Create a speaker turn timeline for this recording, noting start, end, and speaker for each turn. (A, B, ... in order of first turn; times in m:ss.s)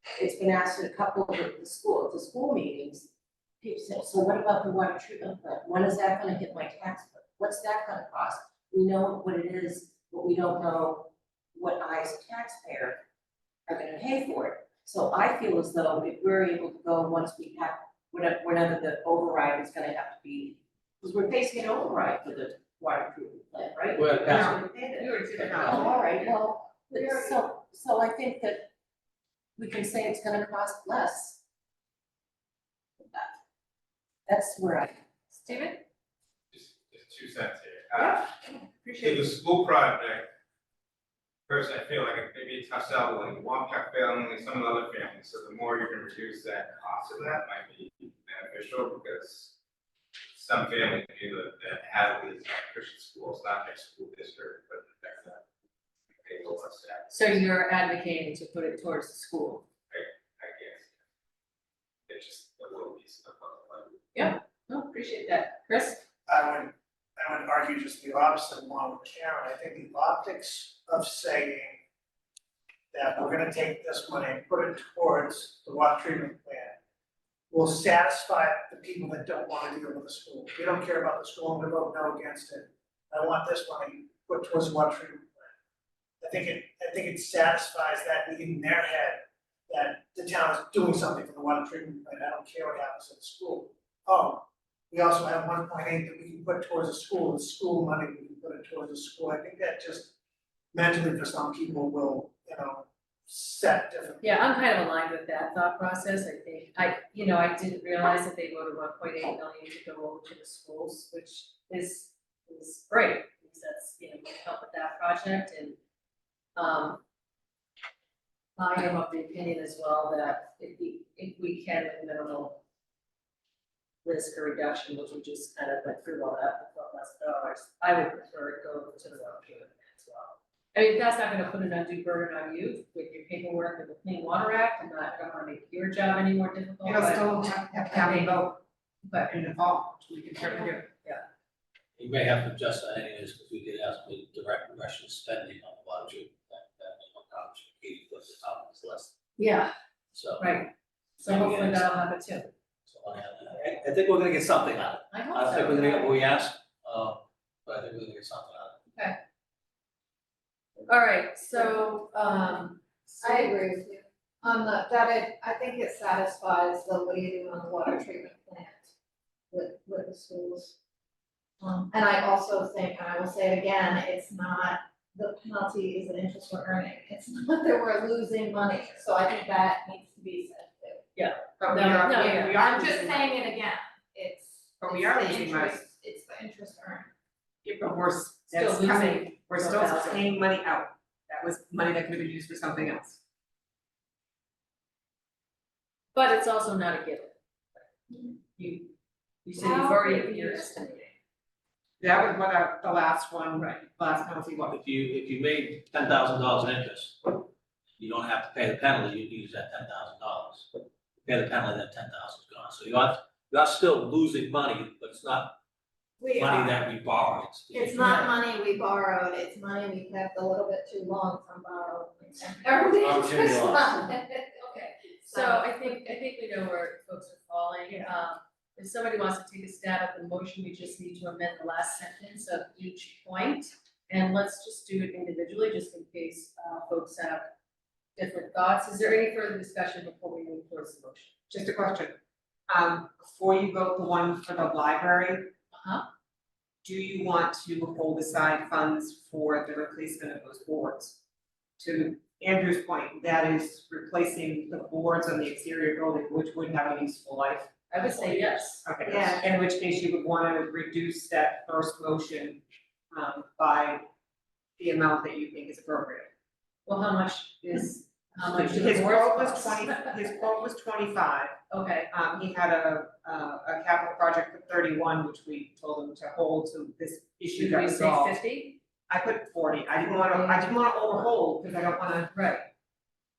0:00.2-0:03.1 A
0:03.6-0:13.0 A
0:13.7-0:25.0 A
0:24.0-0:24.6 B
0:24.3-0:25.9 C
0:25.0-0:26.3 D
0:25.5-0:25.7 B
0:25.6-0:28.7 A
0:26.9-0:27.3 D
0:29.6-0:31.4 A
0:33.1-0:33.4 A
0:34.3-0:35.0 A
0:35.3-0:35.8 D
0:36.5-0:38.3 E
0:38.0-0:39.3 C
0:39.0-0:40.3 E
0:41.5-0:49.6 E
0:50.3-0:55.4 E
0:56.2-0:57.2 E
0:57.1-0:59.7 D
0:59.9-1:00.9 E
1:02.1-1:04.0 E
1:04.1-1:06.0 D
1:06.3-1:11.8 F
1:12.9-1:16.8 F
1:17.5-1:25.5 F
1:26.2-1:40.1 F
1:40.7-1:44.3 F
1:44.2-1:55.8 D
1:56.6-1:57.0 D
1:58.6-2:02.6 D
2:04.0-2:18.4 D
2:16.8-2:18.6 C
2:19.0-2:19.3 D
2:19.3-2:20.9 C
2:21.0-2:21.2 D
2:22.0-2:29.1 B
2:29.4-2:29.7 D
2:30.1-2:30.7 B
2:30.4-2:32.5 D
2:31.3-2:31.9 B
2:32.9-2:38.8 B
2:35.1-2:36.2 D
2:38.9-2:39.2 D
2:40.9-2:43.6 D
2:43.2-2:48.9 G
2:49.5-2:50.8 G
2:51.6-3:01.1 G
3:01.2-3:03.0 D
3:01.6-3:03.5 C
3:01.8-3:07.1 G
3:04.8-3:05.9 C
3:07.6-3:13.2 C
3:08.5-3:10.3 D
3:16.1-3:17.4 D
3:18.6-3:18.9 D
3:19.4-3:21.1 D
3:19.6-3:20.7 G
3:22.0-3:24.8 C
3:24.7-3:27.5 B
3:28.0-3:35.6 B
3:36.2-3:36.8 G
3:36.4-3:38.4 B
3:37.7-3:46.2 G
3:42.9-3:44.0 B
3:44.8-3:57.5 D
3:58.2-4:01.4 D
4:01.5-4:02.2 C
4:02.7-4:05.5 C
4:05.7-4:06.1 D
4:06.8-4:11.2 C
4:11.8-4:17.8 C
4:17.9-4:18.9 D
4:18.8-4:22.6 C
4:19.0-4:19.5 G
4:23.1-4:24.0 C
4:24.8-4:26.3 C
4:26.9-4:30.2 D
4:28.4-4:31.6 C
4:31.7-4:32.1 D
4:32.1-4:38.4 C
4:37.5-4:38.8 D
4:39.1-4:42.3 C
4:40.1-4:40.7 D
4:42.3-4:42.7 D